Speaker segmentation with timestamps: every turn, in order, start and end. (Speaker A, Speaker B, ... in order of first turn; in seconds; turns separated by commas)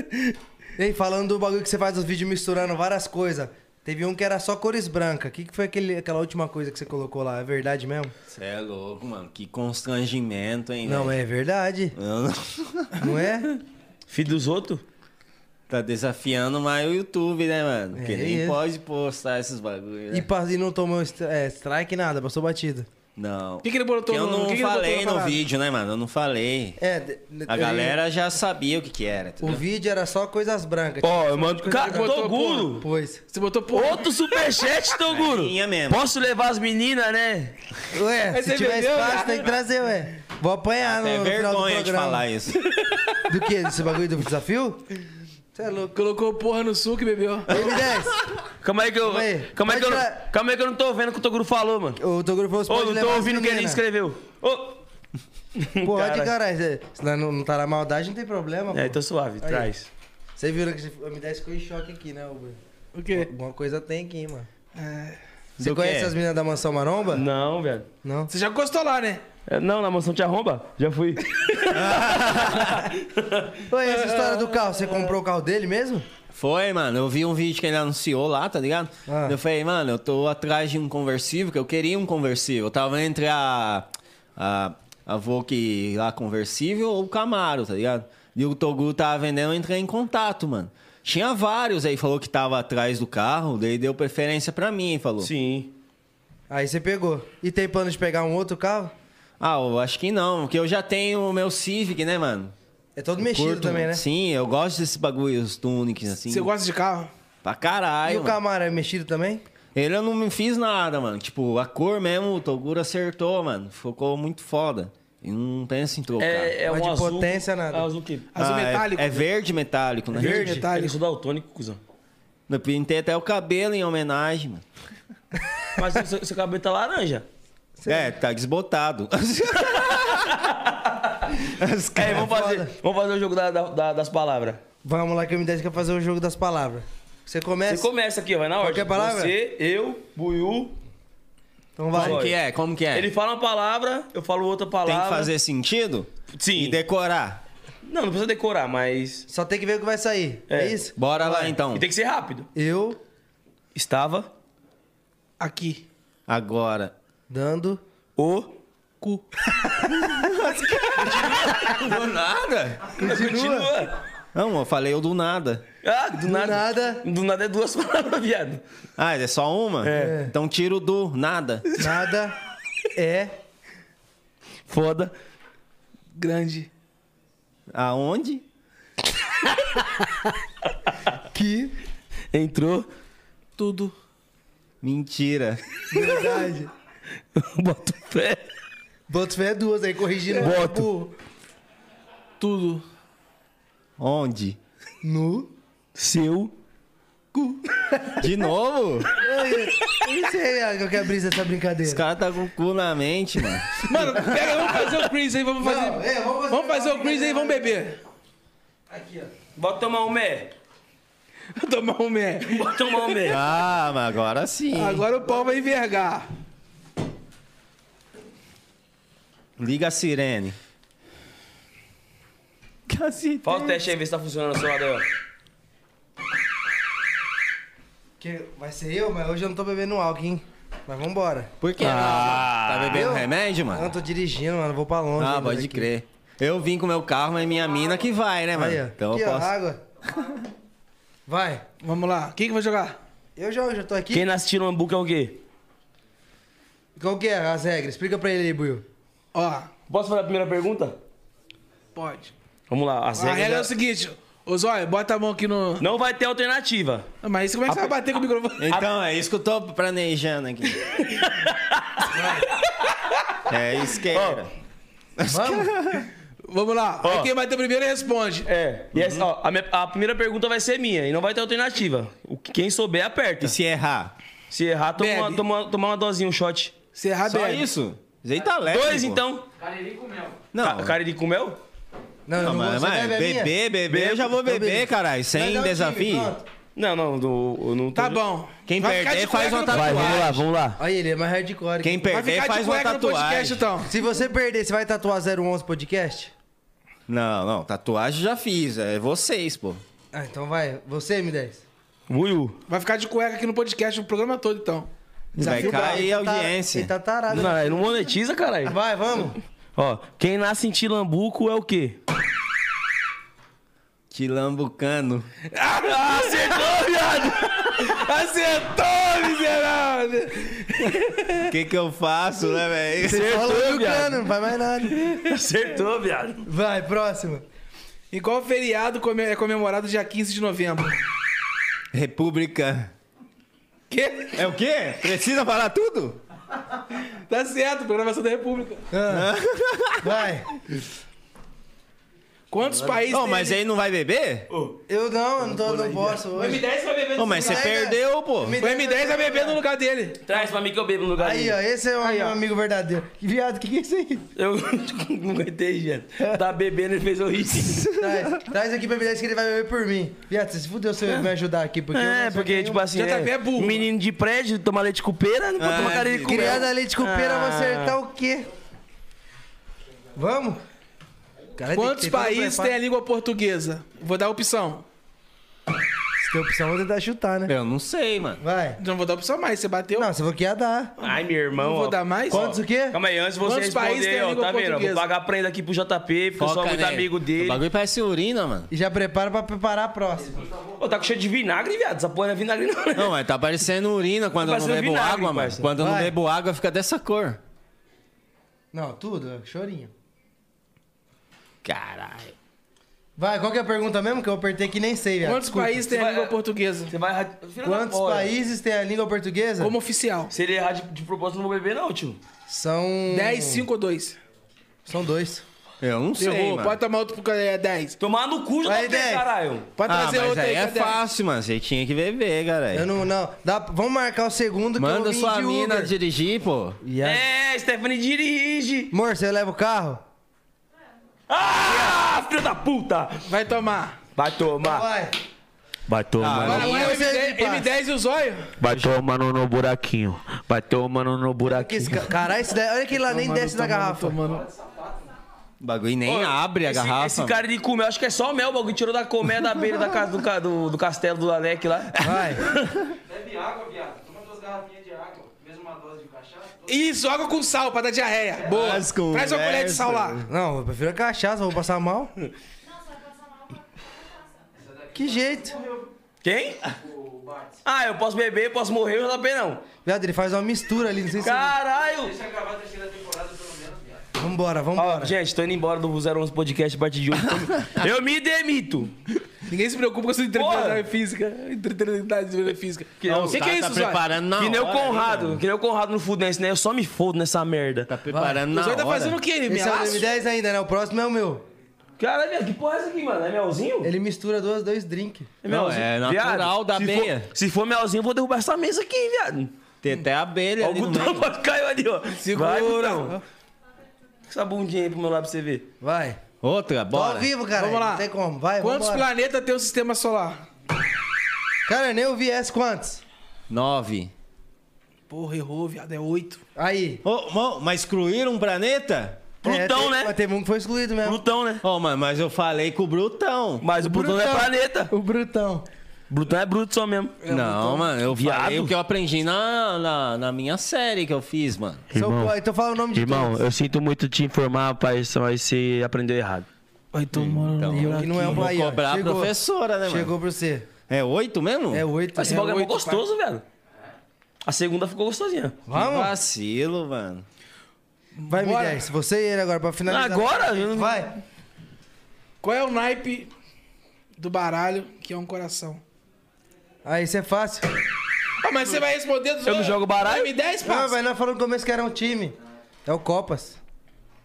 Speaker A: 0.8-8.1, Speaker B: 8.3-11.2, Speaker A: 10.8-12.0, Speaker B: 11.9-13.1, Speaker A: 13.0-13.6, Speaker C: 14.1-14.8, Speaker B: 15.7-20.3, Speaker A: 17.9-18.6, Speaker A: 20.1-22.9, Speaker B: 23.2-26.8, Speaker D: 23.6-25.4, Speaker A: 26.8-28.0, Speaker B: 27.5-29.6, Speaker A: 29.4-32.2, Speaker C: 31.0-32.9, Speaker D: 31.7-34.7, Speaker A: 32.7-33.2, Speaker C: 33.7-37.6, Speaker B: 35.1-36.0, Speaker A: 37.9-42.2, Speaker D: 38.3-39.5, Speaker B: 40.9-42.6, Speaker A: 43.3-44.8, Speaker A: 45.5-46.0, Speaker D: 45.9-47.5, Speaker A: 47.5-48.2, Speaker B: 47.5-48.4, Speaker C: 48.6-52.0, Speaker A: 49.0-50.2, Speaker A: 52.0-53.8, Speaker C: 52.7-54.8, Speaker C: 55.6-56.3, Speaker A: 55.8-59.7, Speaker C: 58.7-59.9, Speaker A: 60.4-62.6, Speaker D: 63.0-63.3, Speaker A: 63.1-64.5, Speaker D: 64.8-65.2, Speaker B: 65.6-66.1, Speaker A: 65.6-67.2, Speaker C: 67.1-67.9, Speaker A: 68.0-68.3, Speaker D: 68.3-69.2, Speaker C: 69.5-73.6, Speaker B: 71.7-72.9, Speaker A: 73.7-76.1, Speaker D: 73.9-74.6, Speaker B: 76.3-95.3, Speaker A: 79.1-79.4, Speaker C: 95.2-95.7, Speaker A: 96.5-98.9, Speaker B: 99.4-102.5, Speaker A: 103.0-104.0, Speaker B: 103.2-106.5, Speaker D: 106.3-107.1, Speaker B: 107.4-108.4, Speaker A: 108.1-109.4, Speaker B: 109.8-116.5, Speaker C: 116.2-118.3, Speaker A: 116.7-117.9, Speaker D: 118.3-119.3, Speaker B: 118.4-120.6, Speaker A: 120.2-120.7, Speaker D: 120.2-121.0, Speaker C: 120.2-121.8, Speaker B: 122.5-124.7, Speaker C: 125.8-127.3, Speaker A: 127.8-128.1, Speaker B: 127.9-130.5, Speaker C: 129.8-131.3, Speaker B: 131.4-132.3, Speaker C: 132.0-134.6, Speaker A: 132.1-132.7, Speaker A: 134.8-137.9, Speaker C: 137.7-140.8, Speaker A: 138.6-139.3, Speaker A: 141.8-142.2, Speaker C: 141.9-142.3, Speaker B: 141.9-143.1, Speaker C: 142.9-145.3, Speaker B: 144.9-147.4, Speaker C: 146.3-146.8, Speaker C: 147.9-149.3, Speaker A: 149.3-151.5, Speaker C: 150.5-150.8, Speaker B: 151.0-151.8, Speaker C: 151.7-152.5, Speaker A: 152.6-153.0, Speaker C: 153.8-154.3, Speaker D: 155.4-155.8, Speaker B: 156.3-156.9, Speaker A: 157.3-157.8, Speaker C: 158.2-158.6, Speaker D: 159.0-159.3, Speaker B: 160.0-162.9, Speaker C: 161.1-161.8, Speaker C: 163.0-163.9, Speaker A: 163.0-163.7, Speaker B: 164.3-165.6, Speaker C: 165.8-168.6, Speaker A: 166.2-167.0, Speaker B: 169.0-171.7, Speaker C: 169.8-170.2, Speaker A: 169.9-170.3, Speaker A: 171.8-172.4, Speaker A: 172.9-173.3, Speaker C: 174.7-175.1, Speaker D: 176.2-176.7, Speaker B: 177.7-178.4, Speaker A: 181.3-181.8, Speaker C: 182.3-182.9, Speaker D: 183.6-183.9, Speaker B: 184.8-186.1, Speaker A: 185.9-186.7, Speaker C: 187.4-188.4, Speaker A: 189.1-191.1, Speaker C: 190.4-190.9, Speaker D: 192.4-192.8, Speaker B: 194.0-194.6, Speaker A: 195.0-195.5, Speaker C: 196.0-196.5, Speaker B: 198.2-199.1, Speaker A: 199.2-202.0, Speaker B: 201.8-204.9, Speaker D: 203.8-208.0, Speaker A: 205.6-207.8, Speaker A: 208.9-209.3, Speaker C: 209.6-210.5, Speaker D: 211.6-213.3, Speaker C: 212.4-213.4, Speaker B: 213.3-215.1, Speaker D: 214.8-216.3, Speaker B: 219.6-220.6, Speaker B: 222.9-223.8, Speaker C: 223.4-225.1, Speaker A: 228.2-231.5, Speaker B: 231.6-233.9, Speaker C: 231.8-233.1, Speaker A: 232.9-235.9, Speaker B: 235.2-239.5, Speaker A: 238.5-239.8, Speaker A: 241.3-241.6, Speaker D: 241.8-243.0, Speaker A: 243.4-244.3, Speaker C: 244.1-245.4, Speaker A: 247.0-248.8, Speaker D: 249.3-249.7, Speaker C: 249.9-251.0, Speaker D: 251.9-252.3, Speaker C: 252.7-253.7, Speaker D: 253.2-255.9, Speaker C: 255.8-257.1, Speaker D: 257.2-258.7, Speaker B: 258.6-260.9, Speaker C: 261.0-262.7, Speaker A: 262.1-262.5, Speaker B: 263.5-264.5, Speaker C: 264.1-264.4, Speaker B: 265.2-266.1, Speaker A: 265.3-265.7, Speaker D: 266.4-268.5, Speaker C: 267.0-267.3, Speaker C: 268.5-273.6, Speaker B: 268.9-269.3, Speaker B: 273.4-274.1, Speaker C: 274.5-276.8, Speaker D: 275.0-275.4, Speaker D: 276.9-277.6, Speaker B: 277.3-279.2, Speaker C: 278.7-279.4, Speaker E: 279.6-280.5, Speaker B: 280.5-281.0, Speaker C: 280.6-281.6, Speaker A: 282.3-283.5, Speaker B: 282.4-286.3, Speaker C: 283.9-284.3, Speaker A: 284.4-286.5, Speaker C: 286.8-288.2, Speaker D: 287.9-290.4, Speaker B: 288.7-290.4, Speaker C: 289.7-290.8, Speaker A: 290.8-292.1, Speaker B: 291.8-293.7, Speaker D: 292.1-293.9, Speaker A: 293.9-296.3, Speaker B: 297.1-299.8, Speaker A: 300.1-301.6, Speaker C: 302.1-302.6, Speaker D: 302.7-304.9, Speaker A: 305.4-307.9, Speaker B: 305.4-306.9, Speaker C: 307.3-308.8, Speaker A: 308.7-309.4, Speaker C: 309.8-312.0, Speaker B: 314.1-315.3, Speaker D: 315.5-321.5, Speaker C: 315.8-317.8, Speaker B: 321.4-323.4, Speaker A: 323.0-325.2, Speaker C: 323.1-324.2, Speaker C: 324.9-326.4, Speaker A: 326.4-327.4, Speaker D: 328.1-331.0, Speaker B: 331.9-332.9, Speaker D: 333.9-334.5, Speaker B: 334.4-336.2, Speaker D: 337.3-338.9, Speaker A: 338.9-339.3, Speaker B: 339.1-340.3, Speaker A: 340.0-340.5, Speaker D: 342.5-343.6, Speaker B: 343.1-344.5, Speaker C: 344.5-344.8, Speaker A: 344.9-346.6, Speaker C: 345.4-346.2, Speaker D: 346.3-347.7, Speaker B: 347.2-348.6, Speaker A: 347.3-349.6, Speaker D: 348.6-350.2, Speaker C: 350.2-351.6, Speaker A: 351.2-354.2, Speaker D: 352.0-352.4, Speaker C: 354.4-357.9, Speaker B: 357.6-358.3, Speaker A: 357.9-362.8, Speaker C: 361.9-368.0, Speaker D: 362.9-363.8, Speaker B: 365.6-366.6, Speaker A: 366.2-368.5, Speaker A: 370.2-370.6, Speaker A: 371.6-372.8, Speaker D: 371.7-374.9, Speaker A: 376.2-377.5, Speaker B: 377.5-378.4, Speaker A: 378.4-378.8, Speaker D: 378.8-380.1, Speaker A: 379.9-380.9, Speaker C: 381.0-387.6, Speaker D: 381.6-382.4, Speaker A: 382.3-383.0, Speaker D: 383.4-385.0, Speaker B: 386.4-388.7, Speaker A: 388.7-390.5, Speaker C: 390.8-393.1, Speaker B: 392.9-397.4, Speaker C: 394.4-395.7, Speaker A: 395.8-396.1, Speaker A: 398.7-399.9, Speaker B: 401.6-402.4, Speaker A: 403.2-405.8, Speaker D: 405.2-406.9, Speaker C: 405.9-406.4, Speaker C: 406.9-408.3, Speaker A: 407.6-409.7, Speaker D: 409.6-410.3, Speaker C: 410.3-412.2, Speaker A: 412.5-413.7, Speaker D: 413.1-414.2, Speaker A: 414.9-415.4, Speaker B: 415.8-416.8, Speaker D: 416.2-418.0, Speaker C: 418.0-419.7, Speaker A: 418.6-419.3, Speaker D: 419.8-421.0, Speaker B: 419.9-422.9, Speaker A: 422.7-425.9, Speaker B: 424.8-426.8, Speaker A: 426.8-427.3, Speaker C: 427.0-428.9, Speaker A: 428.9-430.0, Speaker C: 431.3-433.3, Speaker D: 433.2-434.0, Speaker C: 434.1-434.9, Speaker A: 434.6-435.1, Speaker C: 435.9-436.9, Speaker B: 436.2-436.9, Speaker D: 436.4-438.5, Speaker A: 436.5-437.7, Speaker C: 438.6-442.1, Speaker A: 441.4-444.2, Speaker D: 443.1-444.5, Speaker E: 444.2-445.1, Speaker B: 445.6-447.4, Speaker C: 446.1-452.5, Speaker A: 452.0-452.4, Speaker E: 453.1-456.8, Speaker D: 456.7-460.2, Speaker B: 458.5-460.3, Speaker A: 460.3-462.1, Speaker E: 464.6-465.9, Speaker A: 464.9-465.6, Speaker C: 466.2-466.6, Speaker E: 466.6-467.6, Speaker C: 467.6-469.6, Speaker A: 469.9-471.5, Speaker C: 471.2-472.1, Speaker E: 472.0-474.1, Speaker A: 474.2-475.1, Speaker C: 474.8-478.9, Speaker B: 477.2-477.9, Speaker D: 479.5-484.0, Speaker C: 480.3-480.9, Speaker C: 483.0-483.4, Speaker B: 483.1-485.4, Speaker C: 484.4-487.9, Speaker B: 487.9-489.2, Speaker A: 488.1-488.4, Speaker D: 488.5-490.1, Speaker A: 489.5-491.4, Speaker C: 492.0-493.9, Speaker A: 493.8-495.3, Speaker C: 495.4-499.5, Speaker B: 495.5-497.3, Speaker B: 499.8-501.3, Speaker C: 500.6-503.2, Speaker D: 502.2-503.2, Speaker C: 504.3-505.7, Speaker A: 505.8-506.2, Speaker B: 506.4-507.3, Speaker A: 506.9-509.1, Speaker D: 507.5-508.1, Speaker D: 508.6-510.4, Speaker A: 511.7-513.0, Speaker B: 513.5-514.1, Speaker D: 515.1-516.4, Speaker A: 516.6-517.0, Speaker B: 517.0-519.2, Speaker C: 519.4-520.1, Speaker A: 519.4-521.2, Speaker C: 521.0-521.6, Speaker B: 521.6-523.6, Speaker C: 523.6-524.9, Speaker A: 523.8-525.7, Speaker C: 526.1-527.2, Speaker A: 527.2-527.9, Speaker B: 527.3-531.9, Speaker C: 528.1-528.7, Speaker C: 531.9-532.3, Speaker A: 531.9-533.4, Speaker C: 532.9-536.5, Speaker D: 536.9-538.5, Speaker B: 537.1-540.1, Speaker A: 537.7-539.3, Speaker A: 539.9-540.7, Speaker B: 540.9-541.9, Speaker A: 541.7-542.4, Speaker C: 542.2-543.4, Speaker D: 542.2-543.0, Speaker C: 544.5-545.6, Speaker A: 545.7-546.1, Speaker B: 545.7-547.2, Speaker D: 548.2-548.8, Speaker A: 548.3-551.1, Speaker C: 549.9-551.1, Speaker D: 552.4-553.3, Speaker D: 554.2-555.8, Speaker A: 556.9-557.7, Speaker D: 558.4-561.0, Speaker C: 559.5-560.3, Speaker A: 560.6-563.6